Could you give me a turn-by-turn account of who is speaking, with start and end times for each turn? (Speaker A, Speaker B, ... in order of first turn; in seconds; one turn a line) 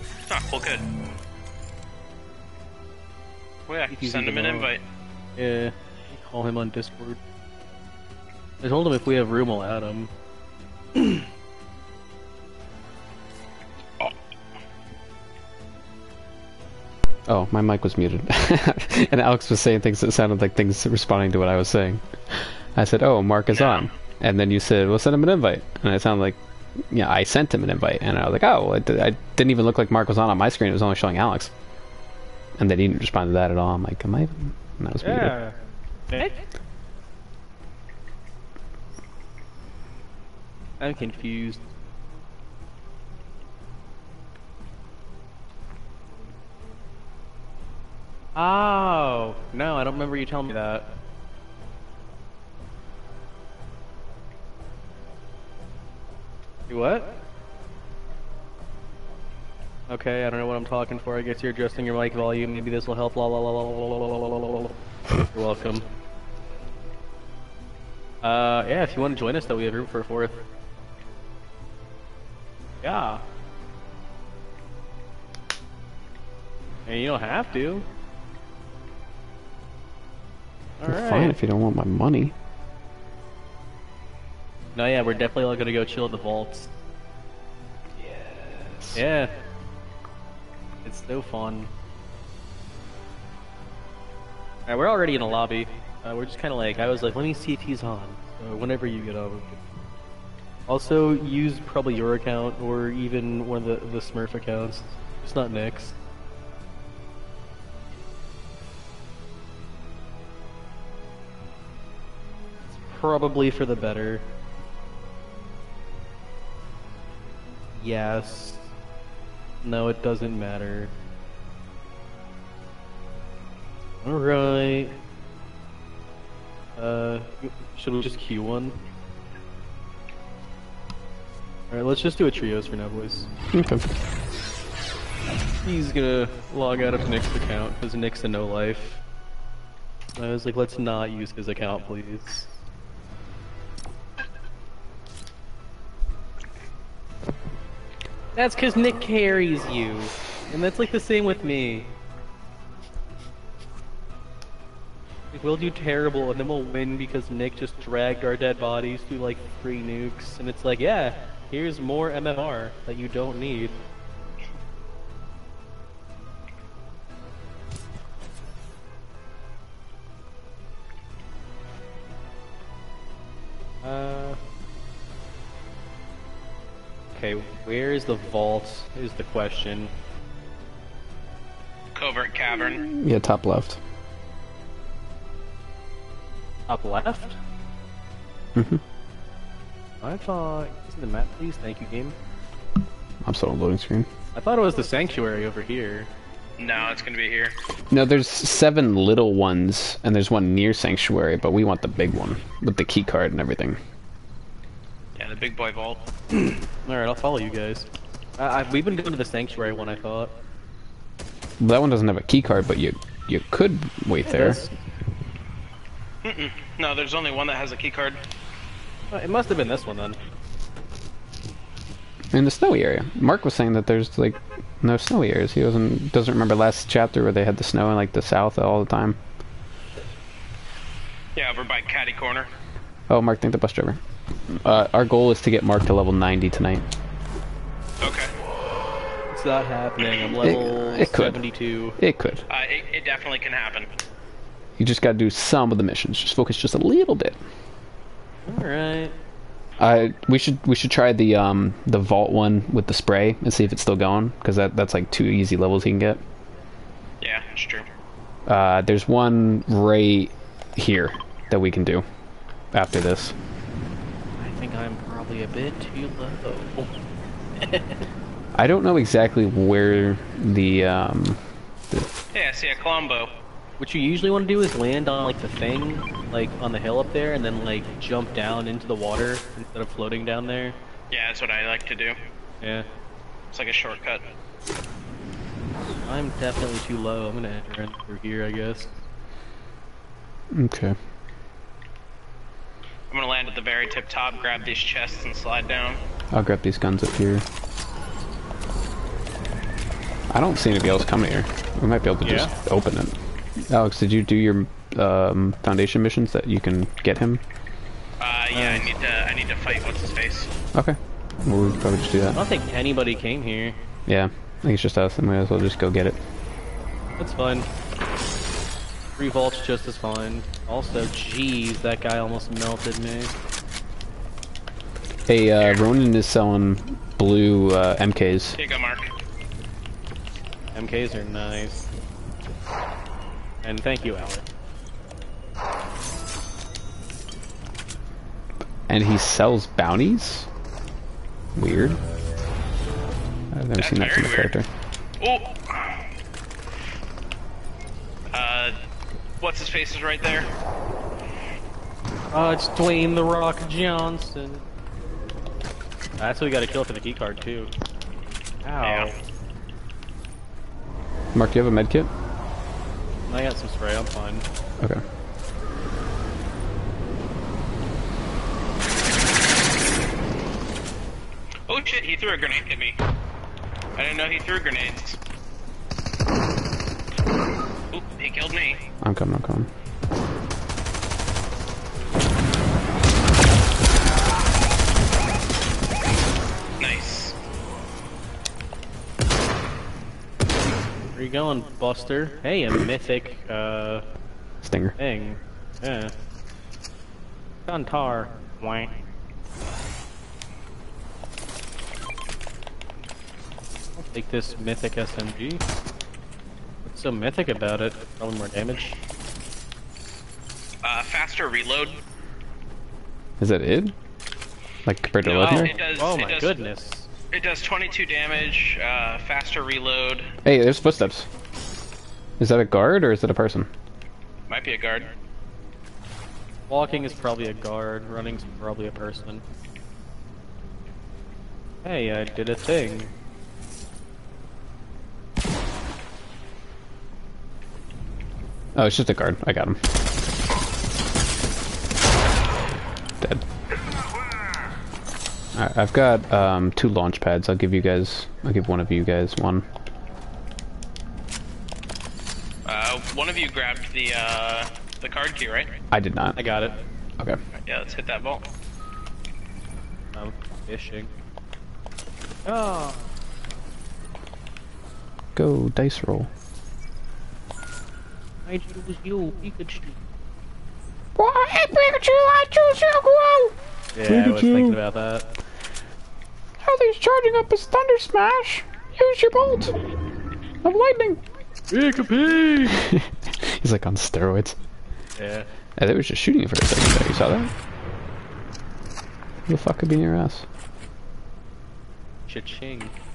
Speaker A: 0.3-0.8
Speaker A: 3.7-4.8
Speaker B: 3.9-4.7
Speaker B: 5.3-7.2
Speaker B: 8.6-10.1
Speaker C: 17.3-26.4
Speaker A: 23.5-23.9
Speaker C: 26.9-31.5
Speaker C: 32.6-35.3
Speaker B: 35.0-35.5
Speaker B: 36.1-36.4
Speaker B: 40.8-41.7
Speaker B: 48.3-50.9
Speaker B: 56.7-57.2
Speaker B: 59.9-64.8
Speaker B: 65.3-65.8
Speaker B: 68.2-70.4
Speaker B: 72.8-73.2
Speaker B: 76.9-77.8
Speaker B: 80.8-81.4
Speaker C: 80.9-82.3
Speaker B: 84.7-86.7
Speaker C: 88.0-89.0
Speaker B: 88.9-89.3
Speaker B: 90.8-91.7
Speaker B: 94.7-99.6
Speaker B: 100.7-106.0
Speaker B: 112.9-114.2
Speaker B: 117.8-118.7
Speaker B: 119.6-120.9
Speaker B: 124.0-125.0
Speaker B: 126.8-128.8
Speaker B: 131.7-133.3
Speaker C: 133.5-133.8
Speaker B: 135.6-139.0
Speaker B: 140.2-142.5
Speaker B: 148.3-151.9
Speaker B: 155.3-163.8
Speaker B: 173.8-174.4
Speaker B: 177.1-179.9
Speaker A: 181.9-182.8
Speaker C: 182.8-183.8
Speaker B: 186.7-187.4
Speaker C: 188.5-188.8
Speaker B: 190.0-192.1
Speaker C: 193.2-194.1
Speaker B: 194.3-196.1
Speaker A: 196.6-197.5
Speaker C: 197.9-203.8
Speaker A: 205.2-206.0
Speaker B: 206.5-210.3
Speaker C: 211.6-214.6
Speaker B: 214.2-214.7
Speaker A: 216.2-218.2
Speaker B: 219.1-220.2
Speaker C: 222.3-229.2
Speaker A: 231.3-232.5
Speaker C: 233.1-236.8
Speaker A: 238.0-238.3
Speaker B: 239.3-242.0
Speaker C: 240.4-241.4
Speaker C: 242.0-242.4
Speaker A: 242.5-243.9
Speaker C: 244.8-247.4
Speaker B: 248.4-249.1
Speaker C: 249.8-256.2
Speaker A: 257.2-257.9
Speaker C: 258.4-262.0
Speaker C: 262.7-263.3
Speaker B: 264.4-266.9
Speaker B: 267.6-268.0
Speaker C: 268.5-272.1
Speaker A: 272.3-273.3
Speaker B: 273.8-280.8
Speaker A: 281.1-282.1
Speaker B: 282.6-282.9
Speaker A: 283.5-284.2
Speaker B: 286.1-288.9
Speaker C: 290.5-290.9
Speaker A: 293.1-296.0
Speaker C: 296.3-297.4
Speaker C: 300.3-307.4
Speaker B: 302.2-302.5
Speaker A: 308.2-310.5
Speaker B: 308.5-308.9
Speaker C: 310.7-312.4
Speaker B: 312.3-313.8
Speaker C: 314.1-316.2
Speaker B: 317.2-317.7
Speaker B: 319.2-323.3
Speaker C: 325.3-328.6
Speaker A: 325.6-325.9
Speaker A: 328.6-329.1
Speaker B: 330.7-331.9
Speaker B: 333.6-334.4
Speaker C: 338.9-340.5
Speaker C: 341.6-342.0
Speaker C: 343.5-344.7
Speaker A: 343.8-344.5
Speaker A: 345.2-346.0
Speaker A: 348.3-348.8
Speaker A: 349.4-350.5
Speaker B: 352.3-354.6
Speaker B: 356.2-357.7
Speaker B: 358.6-359.1
Speaker A: 358.8-359.1
Speaker C: 361.3-362.1
Speaker B: 363.3-364.4
Speaker A: 371.7-373.0
Speaker A: 373.9-375.2
Speaker A: 377.9-378.8
Speaker C: 379.0-379.7
Speaker A: 386.8-387.3
Speaker B: 391.1-394.1
Speaker C: 394.6-394.9
Speaker B: 395.0-396.1
Speaker B: 397.6-398.9
Speaker B: 404.0-405.6
Speaker B: 406.9-409.0
Speaker A: 410.8-412.0
Speaker C: 413.4-413.9
Speaker C: 414.8-415.7
Speaker A: 415.2-416.6
Speaker B: 415.4-417.1
Speaker A: 417.3-420.3
Speaker C: 420.4-421.3
Speaker C: 422.4-423.7
Speaker A: 424.5-425.1
Speaker B: 426.7-429.4
Speaker B: 431.8-433.1
Speaker C: 438.7-439.8
Speaker C: 445.5-449.6
Speaker A: 452.6-455.7
Speaker C: 455.9-456.4
Speaker B: 456.4-456.8
Speaker A: 457.6-458.4
Speaker B: 460.1-461.1
Speaker B: 462.4-463.1
Speaker C: 465.4-466.3
Speaker B: 468.4-470.0
Speaker C: 471.2-473.5
Speaker B: 473.9-475.3
Speaker C: 474.1-474.8
Speaker C: 476.6-479.7
Speaker C: 480.6-481.2
Speaker B: 481.7-482.8
Speaker C: 482.7-484.6
Speaker B: 485.2-485.5
Speaker C: 485.8-487.5
Speaker C: 489.5-490.4
Speaker B: 492.3-492.9